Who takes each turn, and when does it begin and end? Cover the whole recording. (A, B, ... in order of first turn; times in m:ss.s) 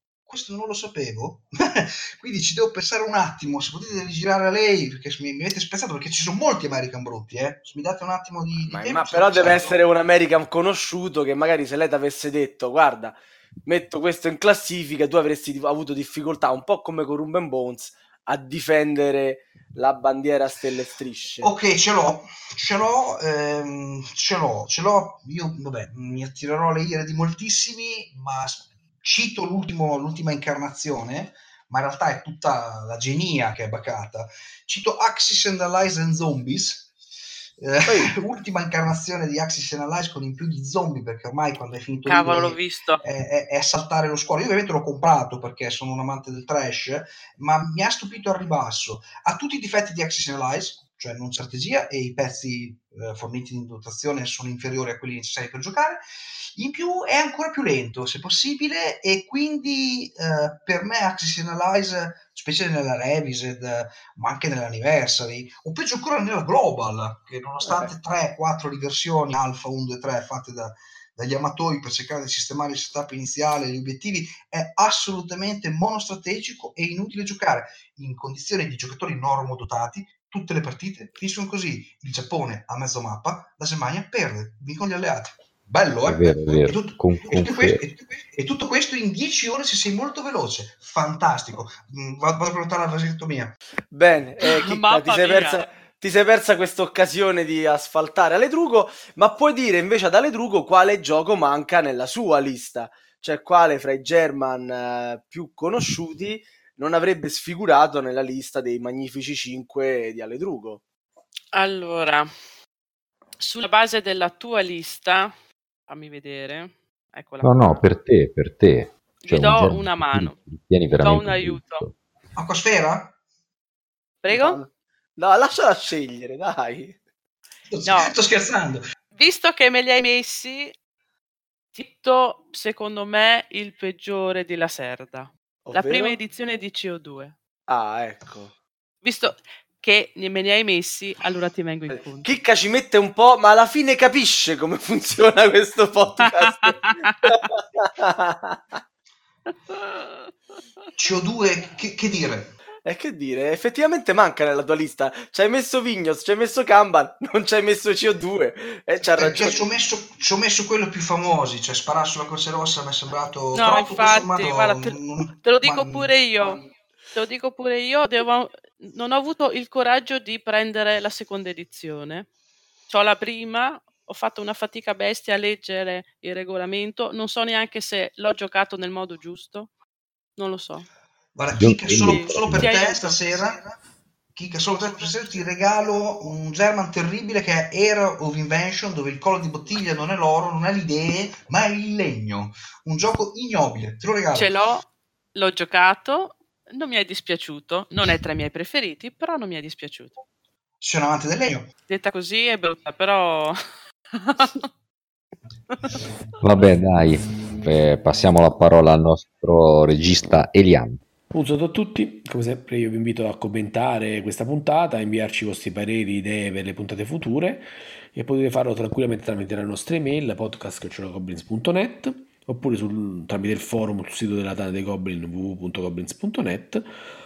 0:00.3-0:09.8 A
0:08.7-0:21.5 B
0:21.4-0:36.9 A
0:37.6-0:56.0 A
0:37.9-0:38.2 B
0:42.1-0:43.0 C
0:56.6-1:33.6 A
1:26.1-1:27.9 D
1:33.9-1:50.8 B
1:34.4-1:35.7 C
1:51.5-1:52.3 C
1:53.4-1:55.3 C
1:55.9-1:57.9 C
1:57.4-2:02.0 D
1:59.2-2:00.4 C
2:01.0-2:01.9 C
2:02.4-2:03.1 A
2:04.2-2:04.6 C
2:04.3-2:07.0 B
2:07.7-2:08.8 A
2:07.8-2:08.2 C
2:09.1-2:10.7 C
2:11.7-2:17.3 C
2:15.6-2:16.2 B
2:17.7-2:18.5 B
2:19.0-2:22.3 C
2:22.2-2:28.8 B
2:26.2-2:27.4 C
2:29.7-2:30.2 C
2:31.0-2:32.5 A
2:32.8-2:39.6 B
2:39.2-2:46.7 A
2:43.5-2:46.6 C
2:47.1-2:52.3 C
2:52.9-2:59.7 C
3:00.4-3:00.9 C
3:01.4-3:03.7 A
3:01.6-3:02.7 D
3:02.0-3:03.6 C
3:04.4-3:14.5 A
3:04.8-3:06.2 C
3:14.3-3:20.2 C
3:20.8-3:21.7 A
3:21.9-3:23.6 C
3:24.1-3:24.6 C
3:26.4-3:31.0 D
3:31.3-3:46.9 E